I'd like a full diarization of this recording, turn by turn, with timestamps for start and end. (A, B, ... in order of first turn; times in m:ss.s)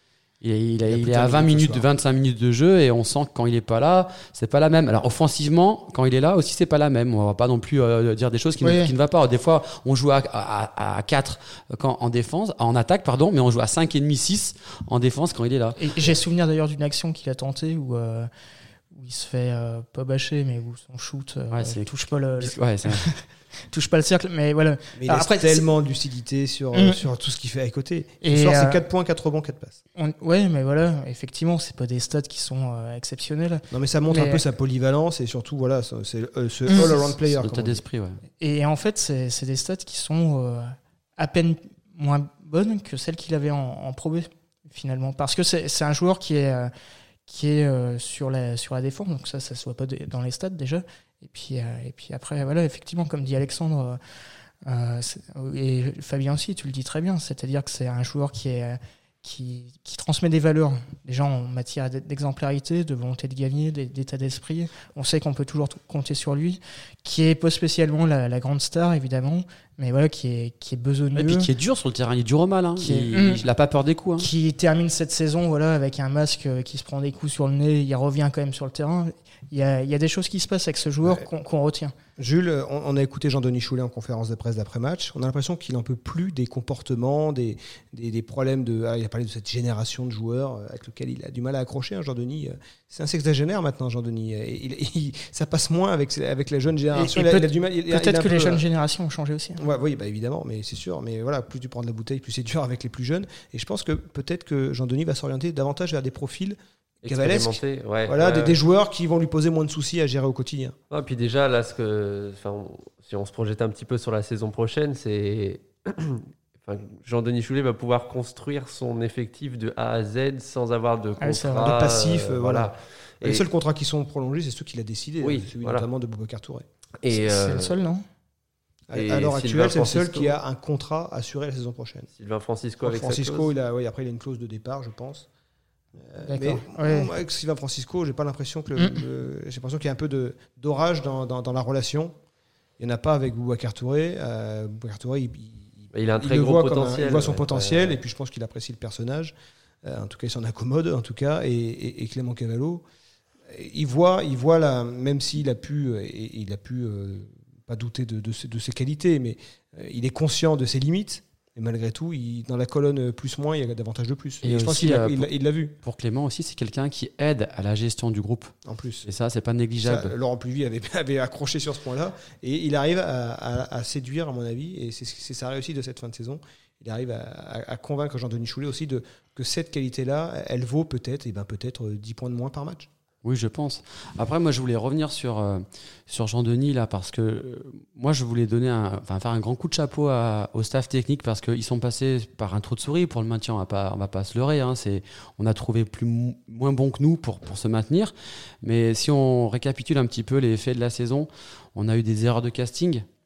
0:00.4-0:15.8 A
0:00.8-0:01.8 B
0:08.6-0:08.9 C
0:15.8-0:18.3 C
0:18.9-0:25.6 C
0:21.5-0:21.9 A
0:22.4-0:23.0 A
0:25.0-0:29.8 B
0:26.7-0:27.0 C
0:28.2-0:28.8 C
0:29.9-0:34.4 C
0:33.7-0:37.8 B
0:36.7-0:37.1 C
0:37.3-0:38.2 A
0:38.4-0:46.7 C
0:47.3-0:54.0 C
0:54.6-1:11.5 C
1:11.1-1:14.3 A
1:12.8-1:13.4 C
1:14.2-1:21.9 C
1:22.2-1:38.6 B
1:36.9-1:39.6 C
1:39.6-1:50.8 B
1:47.0-1:48.6 D
1:50.9-2:03.4 D
2:01.2-2:01.7 C
2:01.6-2:06.6 B
2:05.2-2:05.8 D
2:07.0-2:07.8 D
2:07.1-2:08.0 C
2:08.9-2:12.1 B
2:08.9-2:10.3 D
2:12.2-2:13.5 D
2:12.8-2:15.3 B
2:16.0-2:22.1 B
2:16.2-2:17.1 C
2:22.8-2:32.8 B
2:25.9-2:28.0 D
2:33.5-2:45.7 B
2:44.4-2:45.3 A
2:45.8-2:48.5 A
2:48.6-2:49.1 B
2:49.0-2:50.1 A
2:49.8-3:02.9 B
3:03.2-3:23.0 A